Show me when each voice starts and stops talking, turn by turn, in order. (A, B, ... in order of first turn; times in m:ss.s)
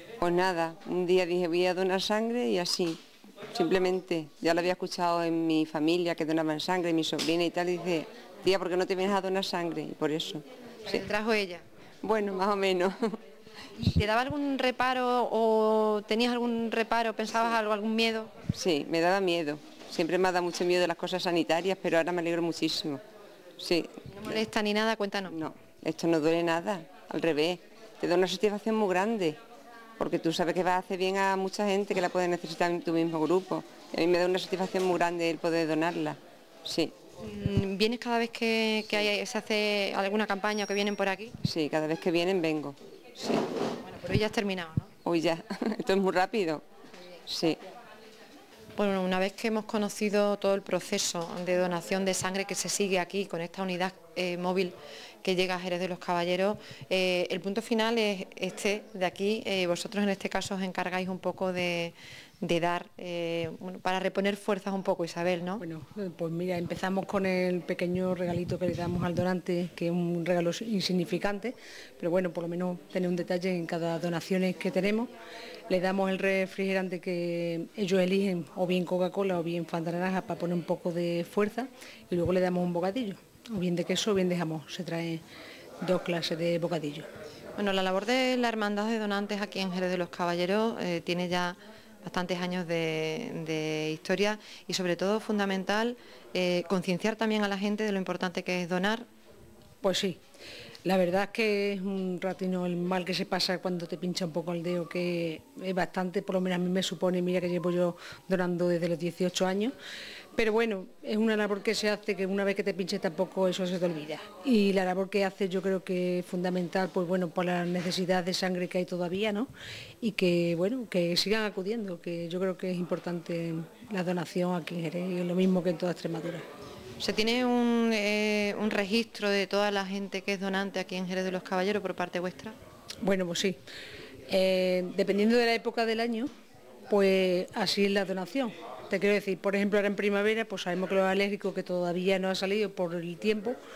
0:00.2-0:11.0 A
0:10.8-0:11.6 B
0:12.0-0:13.2 A
0:13.8-0:18.3 B
0:18.5-0:23.0 A
0:23.6-0:24.4 A
0:24.1-0:25.3 B
0:25.3-0:29.4 A
0:30.0-0:36.9 A
0:37.2-0:41.3 B
0:41.4-0:43.4 A
0:43.8-0:44.9 B
0:45.0-0:46.6 A
0:47.3-0:47.6 A
0:48.8-1:05.6 B
1:05.6-1:15.1 C
1:15.7-1:25.2 C
1:25.8-1:27.1 C
1:27.6-1:39.0 B
1:39.8-1:40.2 C
1:40.8-1:49.7 C
1:50.4-1:59.5 C
2:00.0-2:06.4 C
2:07.0-2:12.6 B
2:13.0-2:13.6 C
2:14.3-2:16.3 C
2:16.9-2:23.6 C